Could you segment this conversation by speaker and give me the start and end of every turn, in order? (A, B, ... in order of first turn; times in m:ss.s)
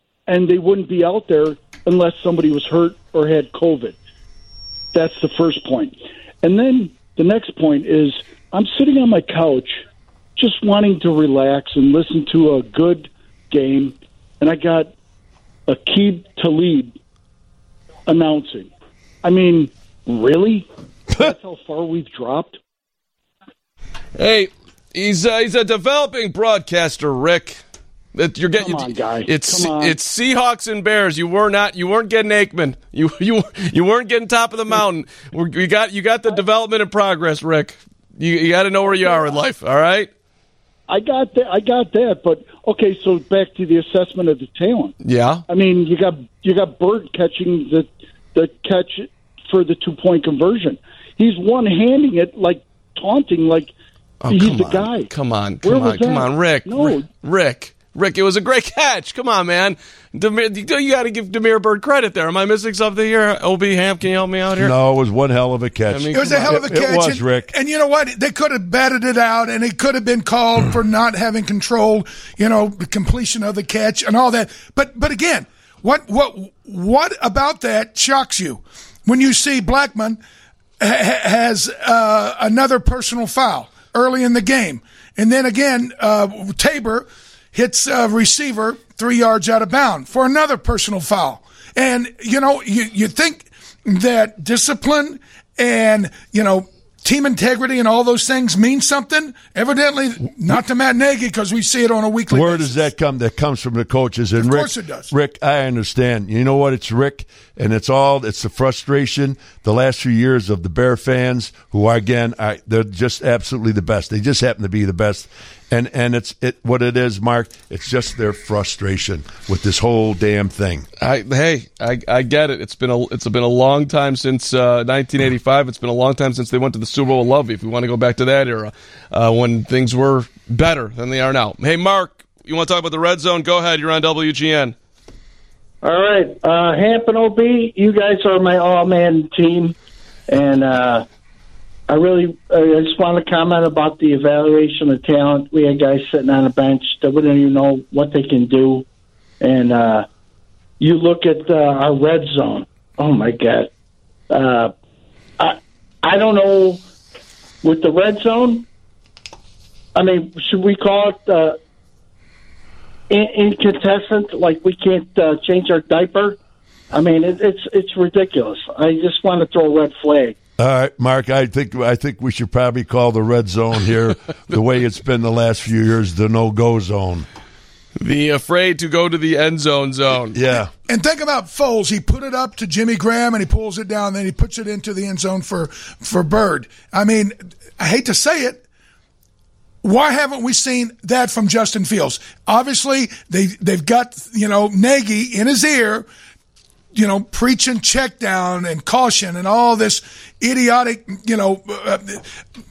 0:00.3-0:04.0 A
0:04.9-0:09.8 A
0:10.4-0:14.9 A
0:15.7-0:17.0 A
0:18.1-0:18.7 A
0:19.2-0:22.6 A
0:24.2-0:27.6 B
0:28.1-0:40.1 B
0:28.6-0:30.0 A
0:38.9-0:39.2 A
0:40.9-0:45.0 A
0:45.0-0:45.4 B
0:45.5-0:53.7 A
0:54.2-1:04.8 B
0:54.3-0:55.1 A
0:55.6-0:57.1 A
1:04.6-1:07.5 C
1:05.9-1:06.6 B
1:06.1-1:20.2 D
1:20.8-1:42.8 D
1:42.3-2:00.9 C
1:44.4-1:45.1 D
2:01.0-2:14.8 B
2:15.8-2:19.8 E
2:20.3-2:21.1 E
2:21.9-2:28.8 E
2:29.4-2:30.1 E
2:30.8-2:33.7 E
2:34.3-2:34.7 E
2:35.4-2:36.8 E
2:37.6-2:38.7 E
2:40.0-2:41.6 E
2:43.1-2:46.4 E
2:46.9-2:50.4 E
2:50.6-2:57.3 C
2:58.0-3:00.4 B
3:00.3-3:00.7 C
3:00.9-3:08.6 D
3:09.8-3:16.1 D
3:16.9-3:22.3 D